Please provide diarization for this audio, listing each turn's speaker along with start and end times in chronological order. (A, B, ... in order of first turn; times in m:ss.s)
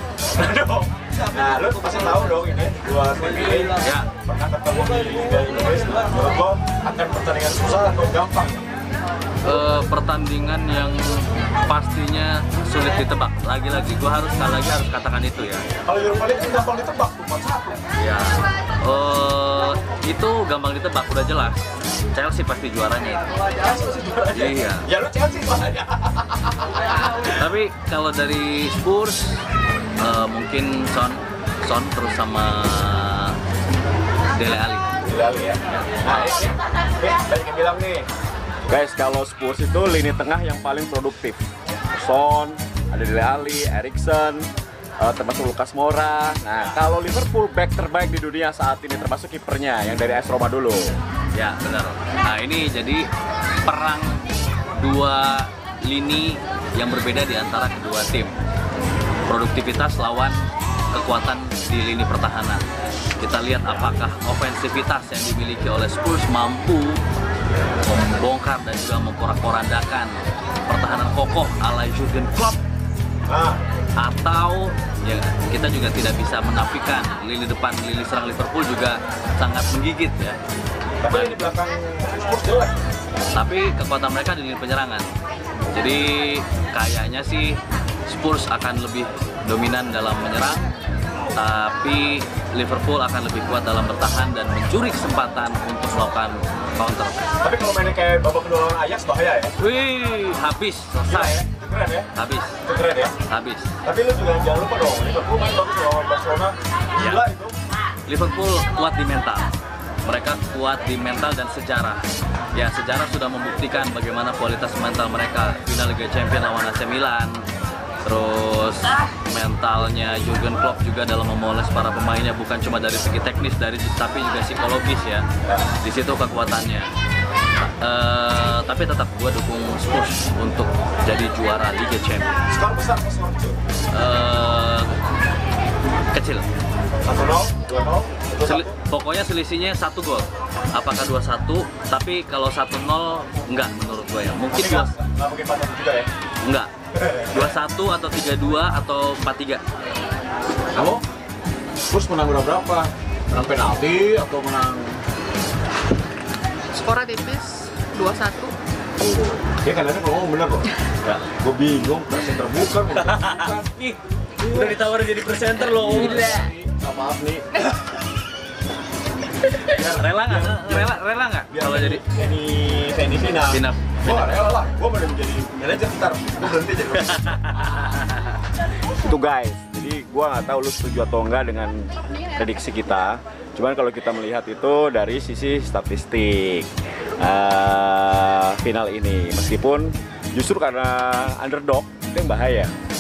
0:00.3-0:08.6 A
0:03.8-0:04.1 B
0:09.4-0:15.7 B
0:15.8-0:17.8 A
0:18.0-0:23.4 B
0:23.5-0:27.4 A
0:24.3-0:24.9 B
0:27.2-0:29.4 B
0:30.0-0:33.4 B
0:34.3-0:34.9 B
0:35.0-0:38.0 A
0:35.7-0:36.4 B
0:38.7-0:44.5 A
0:45.0-0:51.0 A
0:51.3-0:53.1 B
0:53.6-0:58.3 B
0:59.2-1:02.6 B
1:03.2-1:07.0 B
1:07.7-1:12.6 B
1:13.3-1:13.6 A
1:14.0-1:20.4 B
1:21.0-1:22.8 A
1:21.1-1:21.4 B
1:23.3-1:25.0 B
1:25.7-1:30.7 B
1:31.3-1:37.2 B
1:37.4-1:39.6 A
1:39.6-1:41.4 B
1:41.1-1:42.1 A
1:42.1-1:42.6 B
1:42.6-1:43.1 A
1:43.3-1:43.7 B
1:43.8-1:47.5 A
1:47.0-1:47.2 B
1:48.0-1:49.5 B
1:50.0-1:52.0 B
1:52.5-1:57.4 B
1:58.0-2:05.3 B
2:05.4-2:05.7 A
2:05.8-2:06.9 B
2:07.8-2:12.4 B
2:12.5-2:13.6 A
2:13.9-2:15.0 B
2:16.1-2:16.4 B
2:17.0-2:18.8 A
2:18.4-2:24.9 B
2:24.5-2:26.1 A
2:26.4-2:26.7 B
2:26.9-2:27.5 A
2:27.2-2:29.6 B
2:30.7-2:31.0 A
2:31.9-2:35.0 A
2:36.7-2:38.5 C
2:39.0-2:47.8 A
2:42.9-2:46.4 B
2:46.0-2:46.5 C
2:49.4-2:52.0 B
2:49.6-2:58.0 A
2:53.5-2:54.5 B
2:57.0-2:58.2 B
2:58.8-3:12.7 A